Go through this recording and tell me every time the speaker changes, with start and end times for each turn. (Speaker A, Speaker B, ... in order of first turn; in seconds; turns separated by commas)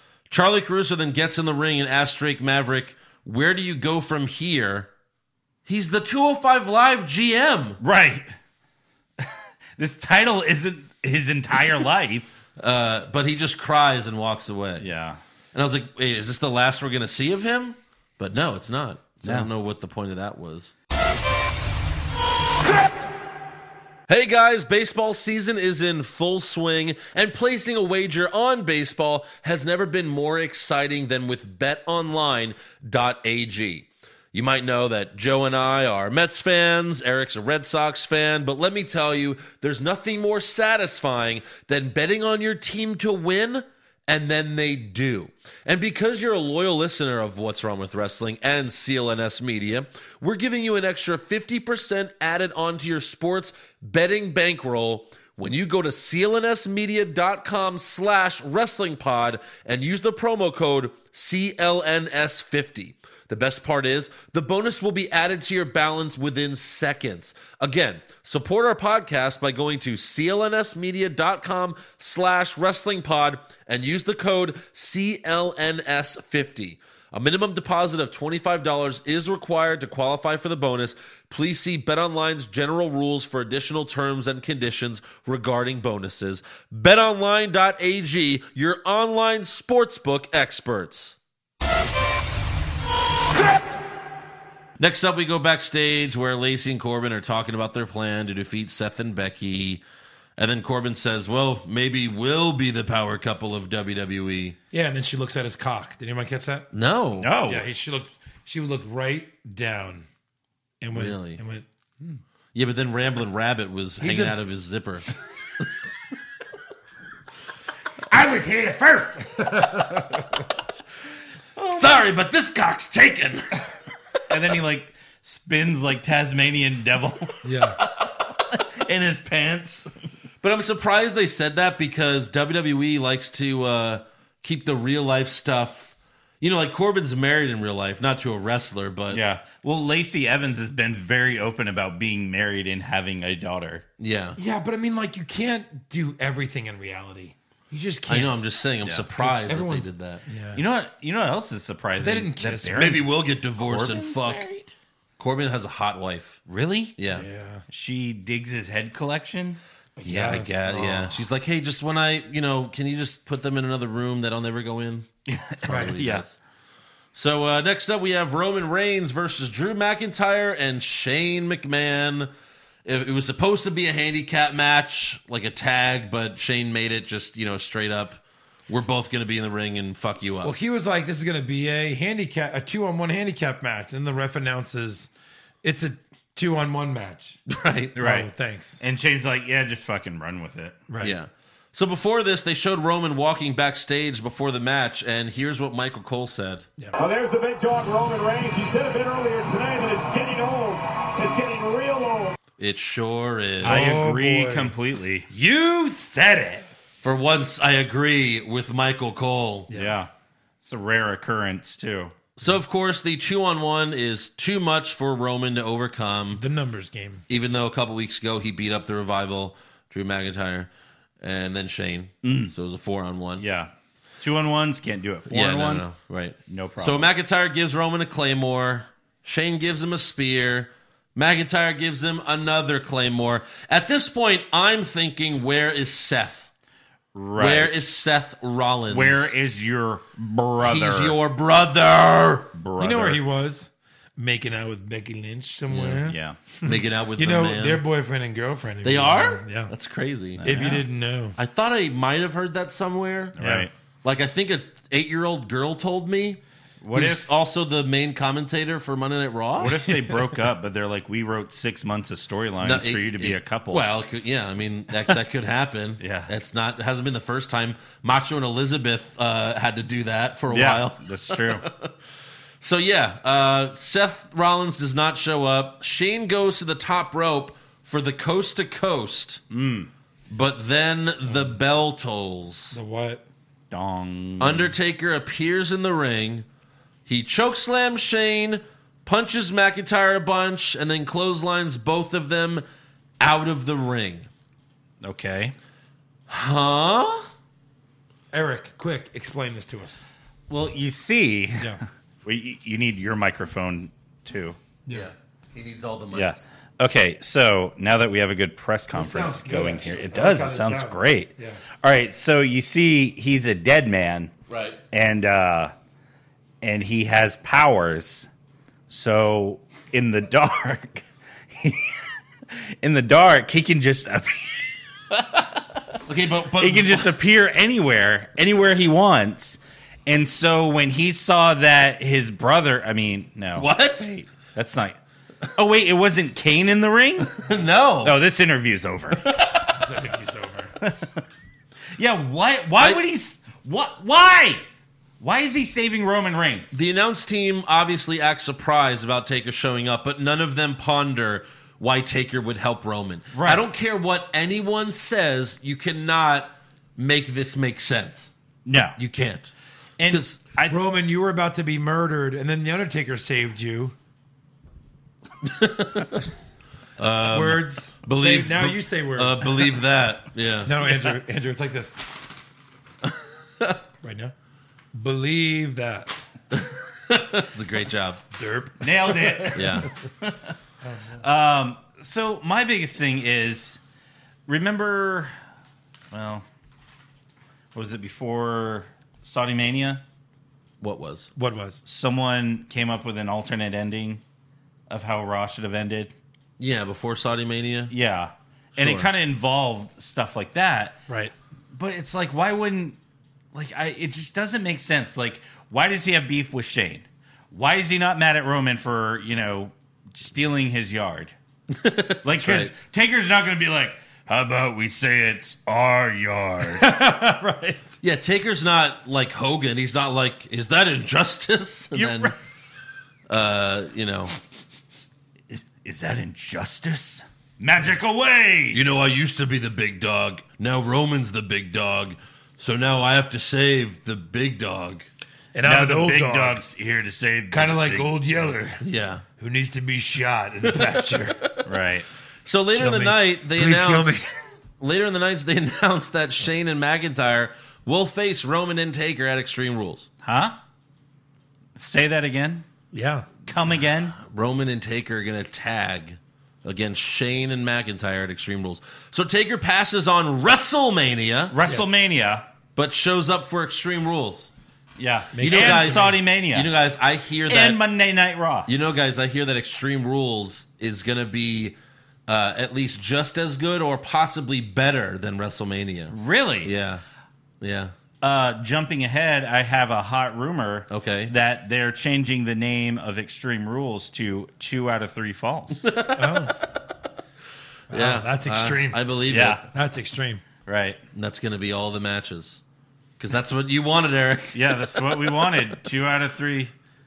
Speaker A: 0.3-4.9, Speaker A: 5.7-7.8, Speaker B: 7.8-8.3, Speaker B: 9.2-12.3, Speaker A: 12.6-14.9, Speaker B: 14.8-15.2, Speaker A: 15.5-20.7, Speaker B: 19.2-19.5, Speaker A: 24.1-91.2, Speaker A: 94.8-99.8, Speaker A: 100.4-104.6, Speaker C: 104.7-106.7, Speaker A: 106.7-107.4, Speaker B: 107.2-107.6, Speaker C: 107.5-110.1, Speaker C: 110.8-112.2, Speaker A: 110.9-111.4, Speaker A: 112.5-115.1, Speaker C: 114.0-114.3, Speaker C: 118.1-120.4, Speaker B: 121.6-122.0, Speaker A: 121.7-123.6, Speaker B: 124.3-129.9, Speaker C: 127.4-127.8, Speaker A: 130.4-139.2, Speaker B: 139.1-143.8, Speaker A: 144.0-144.4, Speaker C: 144.4-148.4, Speaker A: 148.1-150.2, Speaker C: 149.2-150.6, Speaker B: 150.5-154.7, Speaker C: 152.0-152.9, Speaker A: 152.7-154.5, Speaker A: 155.2-156.4, Speaker B: 156.5-156.9, Speaker A: 157.0-157.2, Speaker C: 157.1-157.6, Speaker B: 157.7-159.6, Speaker C: 160.0-160.8, Speaker A: 160.0-166.3, Speaker B: 165.3-166.2, Speaker C: 165.7-165.9, Speaker A: 167.1-172.3, Speaker A: 172.8-180.5, Speaker C: 180.4-185.1, Speaker C: 185.6-187.4, Speaker A: 187.5-188.0, Speaker B: 187.9-188.3, Speaker C: 188.0-188.8, Speaker B: 188.8-190.8, Speaker C: 190.9-191.2, Speaker A: 191.0-196.7, Speaker D: 197.0-202.3, Speaker A: 202.6-204.1, Speaker C: 203.6-204.7, Speaker B: 203.6-205.3, Speaker C: 205.3-206.7, Speaker A: 207.0-209.7, Speaker C: 209.7-209.9, Speaker B: 209.7-210.1, Speaker B: 210.6-212.1, Speaker A: 212.4-216.4, Speaker C: 216.3-217.2, Speaker A: 217.3-220.7, Speaker A: 221.2-223.4, Speaker B: 222.2-222.5, Speaker B: 223.4-223.7, Speaker B: 224.2-225.9, Speaker A: 225.3-236.5, Speaker B: 226.5-227.1, Speaker B: 237.1-237.7, Speaker A: 237.3-239.3, Speaker B: 238.9-241.2, Speaker A: 240.6-242.5, Speaker B: 242.5-243.2, Speaker C: 242.8-249.7, Speaker A: 245.7-246.0, Speaker B: 246.0-246.4, Speaker A: 246.6-247.8, Speaker A: 248.8-250.7, Speaker B: 250.4-250.8, Speaker C: 250.4-251.3, Speaker A: 251.3-253.3, Speaker B: 253.4-253.7, Speaker C: 253.4-253.7, Speaker A: 254.0-256.4, Speaker B: 256.8-257.3, Speaker A: 256.9-259.9, Speaker B: 259.6-263.9, Speaker A: 262.6-271.9, Speaker B: 266.0-266.3, Speaker B: 270.5-271.6, Speaker A: 272.6-279.4, Speaker B: 279.5-279.9, Speaker A: 280.3-282.8, Speaker C: 282.7-283.2, Speaker B: 283.7-284.7, Speaker A: 284.4-286.4, Speaker A: 287.1-292.6, Speaker A: 293.2-294.3, Speaker B: 295.0-295.5, Speaker A: 296.3-297.3, Speaker C: 298.3-300.0, Speaker B: 300.5-304.6, Speaker A: 304.9-306.4, Speaker B: 306.1-314.3, Speaker C: 308.9-311.6, Speaker A: 314.5-314.8, Speaker B: 314.9-315.7, Speaker B: 316.6-318.3, Speaker B: 318.9-322.0, Speaker B: 322.8-326.0, Speaker A: 326.1-327.1, Speaker B: 326.6-335.0, Speaker A: 333.5-334.1, Speaker B: 335.5-337.4, Speaker A: 337.4-338.1, Speaker B: 338.0-339.3, Speaker A: 339.2-339.7, Speaker C: 339.7-340.7, Speaker B: 340.8-341.1, Speaker B: 342.0-344.6, Speaker B: 345.2-346.8, Speaker A: 346.7-358.3, Speaker B: 353.3-353.6, Speaker B: 358.6-359.0, Speaker A: 358.9-359.5, Speaker B: 360.0-360.8, Speaker A: 360.0-360.4, Speaker C: 360.7-363.9, Speaker A: 365.4-366.3, Speaker A: 367.0-371.1, Speaker C: 367.3-369.6, Speaker C: 370.6-372.0, Speaker A: 373.0-373.8, Speaker C: 374.0-374.3, Speaker C: 374.9-376.1, Speaker A: 376.5-378.2, Speaker C: 378.3-379.9, Speaker B: 378.8-380.5, Speaker A: 379.5-379.9, Speaker C: 380.8-381.2, Speaker B: 381.2-383.8, Speaker B: 384.5-385.3, Speaker B: 386.1-386.4, Speaker B: 387.7-390.0, Speaker A: 390.8-391.3, Speaker C: 391.4-391.8, Speaker B: 391.9-394.2, Speaker B: 394.9-396.1, Speaker A: 396.6-397.9, Speaker B: 397.9-401.0, Speaker A: 398.8-399.1, Speaker C: 401.1-401.3, Speaker B: 401.7-403.0, Speaker B: 403.5-411.3, Speaker A: 411.7-412.7, Speaker B: 412.2-416.9, Speaker C: 416.7-418.0, Speaker A: 418.0-422.3, Speaker B: 421.9-422.4, Speaker A: 423.3-424.3, Speaker B: 425.5-428.8, Speaker A: 428.7-435.1, Speaker C: 435.5-436.6, Speaker B: 435.6-438.1, Speaker C: 437.5-438.8, Speaker A: 438.8-439.2, Speaker C: 439.4-441.4, Speaker A: 440.9-441.5, Speaker B: 441.6-442.1, Speaker A: 442.4-444.2, Speaker C: 442.7-444.2, Speaker A: 444.8-450.1, Speaker B: 450.2-450.5, Speaker B: 451.8-452.6, Speaker C: 452.9-453.3, Speaker B: 453.4-454.2, Speaker A: 454.1-461.5, Speaker B: 461.5-462.4, Speaker C: 461.6-462.0, Speaker A: 462.8-464.5, Speaker B: 465.0-466.7, Speaker C: 465.3-466.1, Speaker A: 465.4-467.8, Speaker B: 467.5-468.7, Speaker A: 468.7-471.8, Speaker A: 472.3-477.0, Speaker B: 476.1-476.7, Speaker A: 477.6-477.9, Speaker B: 478.2-485.9, Speaker A: 480.9-481.3, Speaker A: 485.8-486.5, Speaker C: 486.1-486.5, Speaker C: 487.9-489.0, Speaker A: 487.9-489.6, Speaker B: 489.3-489.6, Speaker C: 489.7-490.4, Speaker B: 490.6-491.0, Speaker A: 491.1-492.6, Speaker A: 493.2-495.5, Speaker B: 494.5-496.7